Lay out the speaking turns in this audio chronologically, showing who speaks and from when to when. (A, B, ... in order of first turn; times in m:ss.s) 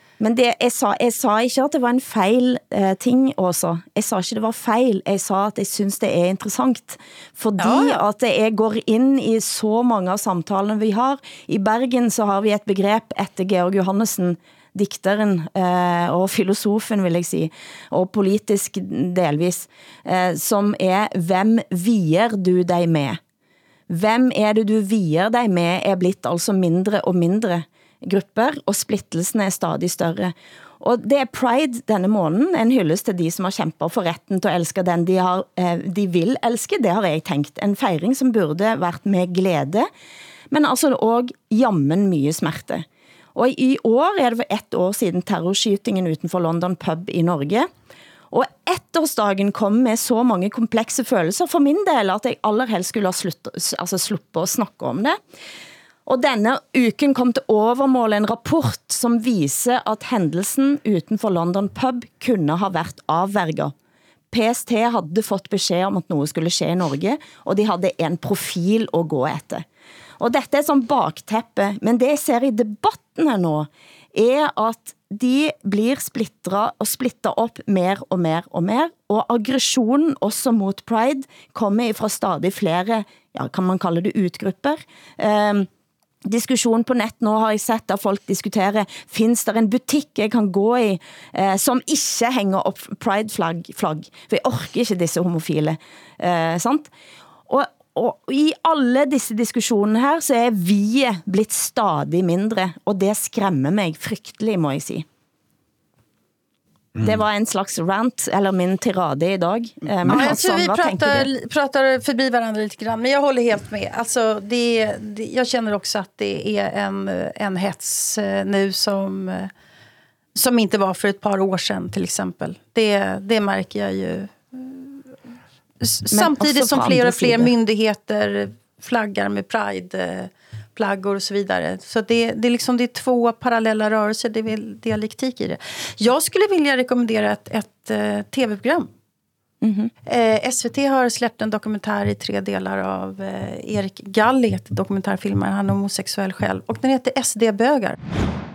0:00.2-0:23.2 A
0:07.6-0:08.0 B
0:23.9-0:39.9 A
0:40.5-0:47.7 A
0:48.3-0:55.2 A
0:56.0-1:03.7 A
1:04.3-1:09.6 A
1:10.2-1:25.7 A
1:26.2-1:36.9 A
1:37.5-1:45.0 A
1:47.0-1:51.3 A
1:50.1-1:59.5 B
2:00.3-2:05.0 B
2:05.8-2:18.9 B
2:06.1-2:07.5 A
2:19.6-2:19.9 A
2:20.0-2:27.9 B